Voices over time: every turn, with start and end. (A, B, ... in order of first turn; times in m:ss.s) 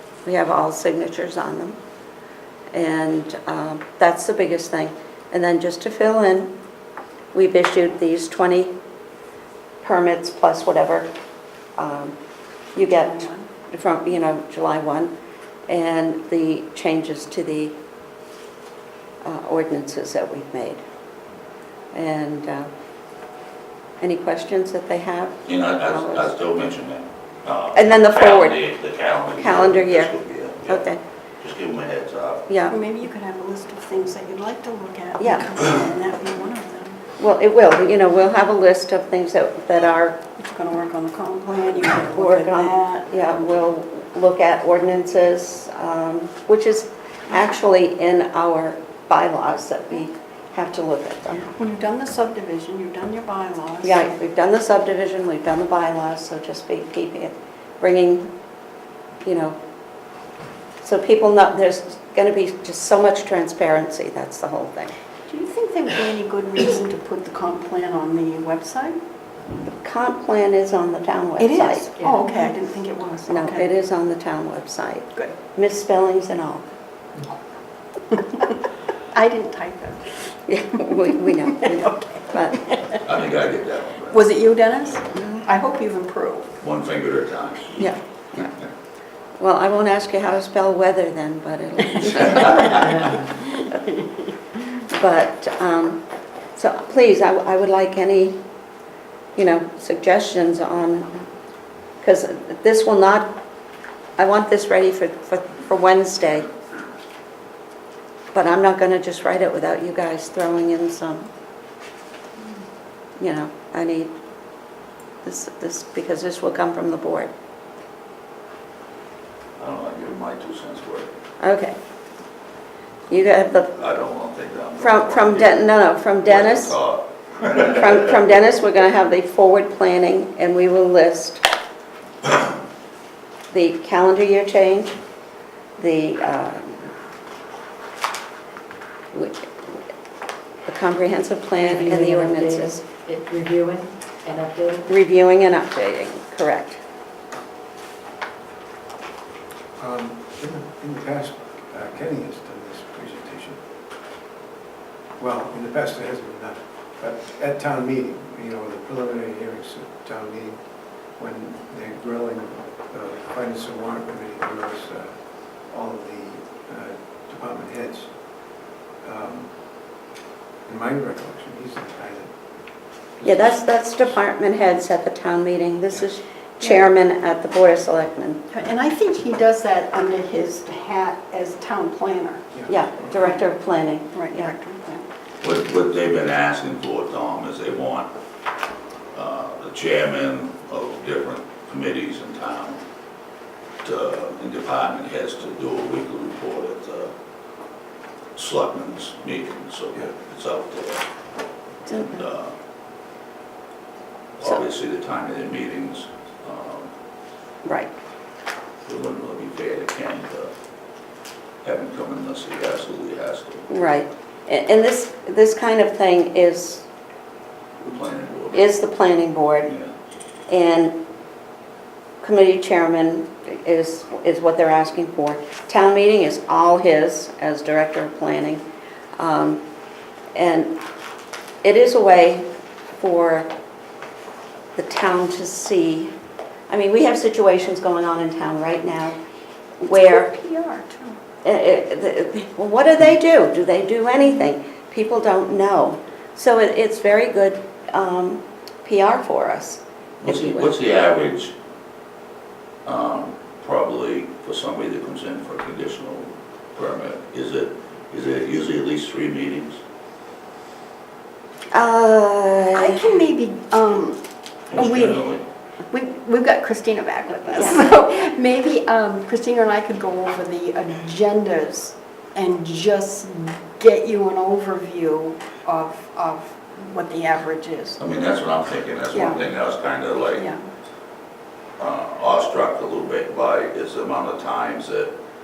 0:00.2-0:01.8 A
0:02.7-0:06.5 A
0:07.3-0:08.7 A
0:09.8-0:11.1 A
0:11.8-0:12.2 A
0:12.8-0:15.1 A
0:13.0-0:13.5 B
0:15.7-0:17.8 A
0:19.2-0:20.8 A
0:21.9-0:22.7 A
0:24.0-0:26.4 A
0:25.5-0:30.9 C
0:27.7-0:28.6 A
0:29.4-0:30.2 A
0:30.7-0:31.0 A
0:31.4-0:32.5 C
0:32.5-0:32.8 A
0:32.7-0:37.0 B
0:35.2-0:35.6 A
0:37.2-0:40.2 A
0:40.4-0:43.1 B
0:42.0-0:51.5 A
0:51.6-0:54.1 B
0:53.8-0:58.3 A
0:59.2-0:59.6 A
1:00.8-1:05.0 A
1:05.3-1:09.0 B
1:09.8-1:11.9 A
1:11.4-1:13.7 B
1:12.0-1:12.3 D
1:13.3-1:16.6 A
1:19.1-1:23.0 B
1:20.5-1:22.7 A
1:22.9-1:24.4 C
1:24.1-1:26.5 B
1:26.6-1:27.8 C
1:27.8-1:28.5 A
1:29.4-1:33.3 A
1:32.4-1:32.8 C
1:34.8-1:36.0 A
1:36.6-1:38.4 A
1:39.4-1:41.2 A
1:42.0-1:43.3 A
1:44.2-1:46.5 A
1:48.3-1:51.3 A
1:53.2-1:54.1 A
1:55.2-1:57.3 A
1:59.6-2:01.1 C
2:01.4-2:01.8 A
2:03.1-2:03.8 A
2:03.8-2:05.7 C
2:04.8-2:06.8 A
2:06.2-2:08.1 C
2:07.5-2:11.4 A
2:13.5-2:14.9 A
2:15.8-2:16.9 A
2:19.1-2:19.5 A
2:20.7-2:22.8 A
2:21.6-2:24.9 D
2:24.9-2:26.8 A
2:29.8-2:33.6 E
2:35.2-2:40.6 E
2:41.2-2:45.2 E
2:45.7-2:48.1 E
2:49.0-2:49.5 E
2:50.7-2:52.3 E
2:53.2-2:53.6 E
2:53.2-2:58.4 A
2:58.5-3:02.5 B
3:02.5-3:03.1 E
3:02.7-3:04.5 A
3:04.1-3:05.0 B
3:05.4-3:08.1 C
3:09.1-3:12.8 C
3:13.8-3:17.1 C
3:18.4-3:21.0 C
3:21.9-3:22.2 A
3:22.0-3:22.5 C
3:24.4-3:26.9 C
3:27.6-3:27.9 A
3:28.9-3:30.5 C
3:31.6-3:33.7 C
3:33.7-3:36.8 A
3:37.8-3:38.7 C
3:38.5-3:39.7 A
3:39.7-3:39.9 C
3:40.5-3:41.0 A
3:42.2-3:48.6 A
3:49.2-3:49.6 A
3:50.4-3:50.7 A
3:51.6-3:53.5 A
3:54.8-3:56.1 A
3:56.7-3:59.2 A
3:59.8-4:00.3 A
3:59.9-4:01.2 B
4:01.4-4:10.7 A
4:10.2-4:11.5 C
4:12.9-4:19.8 C
4:21.7-4:23.1 A
4:22.7-4:25.4 B
4:24.7-4:25.4 C
4:25.9-4:38.0 B
4:27.5-4:27.8 A
4:38.0-4:40.5 C
4:39.1-4:39.5 B
4:40.3-4:40.6 B
4:41.8-4:45.1 C